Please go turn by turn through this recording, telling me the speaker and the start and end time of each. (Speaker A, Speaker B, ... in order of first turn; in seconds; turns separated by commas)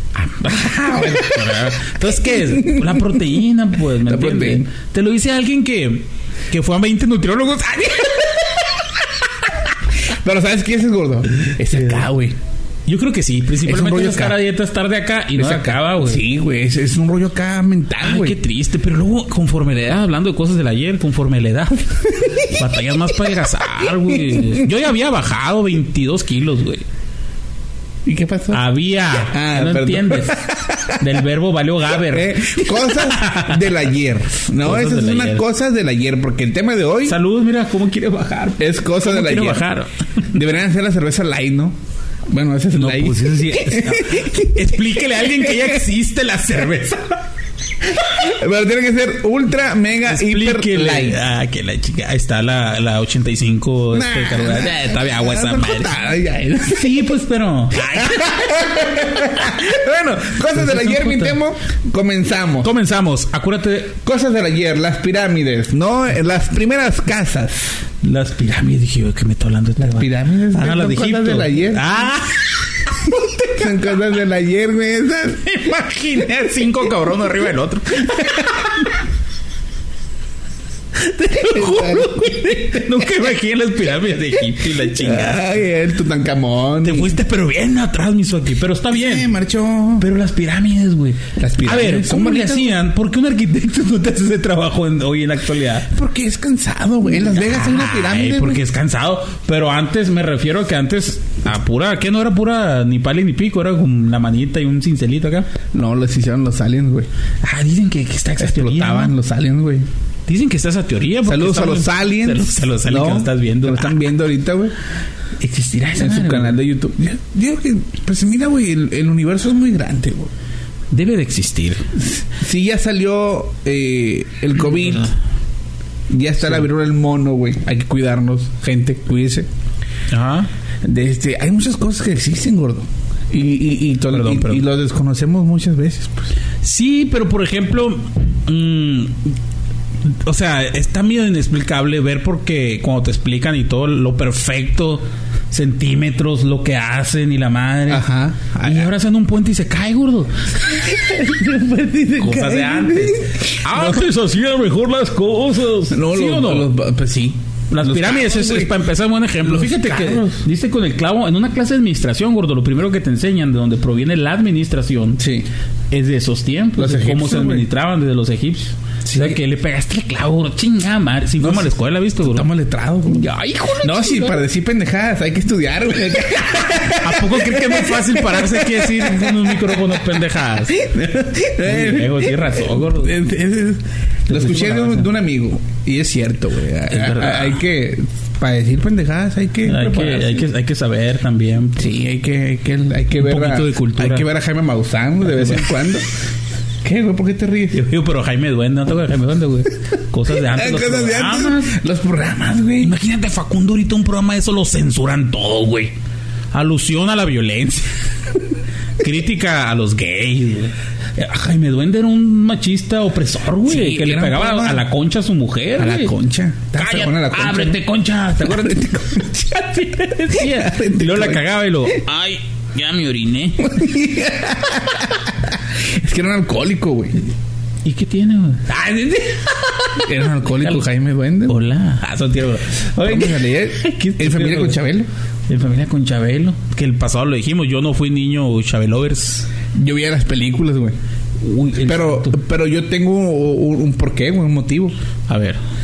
Speaker A: 0.2-8.3, Speaker B: 0.4-1.4, Speaker B: 2.3-3.2, Speaker B: 4.0-4.7, Speaker B: 10.1-12.4, Speaker A: 11.7-12.1, Speaker A: 12.9-16.2, Speaker B: 13.6-14.4, Speaker B: 15.4-18.4, Speaker A: 18.0-26.9, Speaker B: 22.2-22.5, Speaker B: 24.1-24.7, Speaker B: 28.1-31.0, Speaker A: 28.5-33.8, Speaker B: 32.0-37.2, Speaker A: 34.6-35.5, Speaker A: 37.1-40.3, Speaker B: 38.6-39.6, Speaker B: 40.3-41.8, Speaker B: 42.3-45.8, Speaker A: 42.7-47.2, Speaker B: 48.0-51.2, Speaker A: 50.1-55.9, Speaker B: 53.9-57.1, Speaker A: 56.7-58.7, Speaker B: 57.8-62.7, Speaker A: 60.5-61.4, Speaker A: 62.6-64.0, Speaker B: 64.0-67.8, Speaker A: 68.0-73.2, Speaker B: 69.8-72.0, Speaker B: 73.5-75.7, Speaker A: 75.5-78.8, Speaker B: 78.2-78.6, Speaker A: 81.0-85.4, Speaker B: 81.3-82.6, Speaker B: 84.8-87.2, Speaker A: 86.8-89.3, Speaker B: 88.9-90.1, Speaker A: 90.0-95.9, Speaker B: 91.4-92.8, Speaker B: 95.9-98.6, Speaker A: 97.1-105.5, Speaker B: 105.7-107.1, Speaker A: 107.4-109.1, Speaker B: 108.4-109.9, Speaker A: 110.3-114.1, Speaker B: 111.2-114.7, Speaker A: 115.4-116.6, Speaker B: 116.0-120.3, Speaker A: 120.9-121.9, Speaker B: 122.0-125.1, Speaker B: 126.1-129.5, Speaker A: 130.1-130.5, Speaker B: 130.8-136.3, Speaker A: 134.1-134.6, Speaker A: 136.6-139.2, Speaker A: 140.1-148.1, Speaker B: 147.9-148.9, Speaker A: 148.6-150.5, Speaker B: 150.7-154.1, Speaker A: 152.2-156.7, Speaker B: 155.9-158.8, Speaker A: 157.7-165.2, Speaker B: 159.4-160.4, Speaker B: 165.2-165.5, Speaker A: 165.9-172.5, Speaker B: 166.8-167.7, Speaker B: 169.0-169.4, Speaker B: 171.4-173.3, Speaker A: 173.1-174.4, Speaker B: 173.8-190.4, Speaker A: 176.9-180.8, Speaker A: 181.6-183.2, Speaker A: 184.3-185.1, Speaker A: 186.9-187.6, Speaker A: 189.7-191.9, Speaker B: 191.8-196.1, Speaker A: 193.2-194.3, Speaker A: 195.3-195.6, Speaker B: 196.8-197.8, Speaker A: 197.7-201.8, Speaker B: 200.3-202.9, Speaker A: 202.8-205.9, Speaker A: 206.5-207.9, Speaker A: 209.0-216.2, Speaker B: 213.6-214.9, Speaker B: 215.8-217.9, Speaker A: 216.8-223.8, Speaker B: 218.4-219.5, Speaker B: 220.3-221.5, Speaker B: 223.6-227.2, Speaker A: 227.8-229.3, Speaker B: 228.7-229.4, Speaker B: 229.9-231.6, Speaker A: 231.5-234.8, Speaker B: 233.0-235.1, Speaker A: 235.5-239.5, Speaker B: 239.7-241.0, Speaker A: 241.4-242.4, Speaker B: 241.8-244.9, Speaker A: 245.3-245.6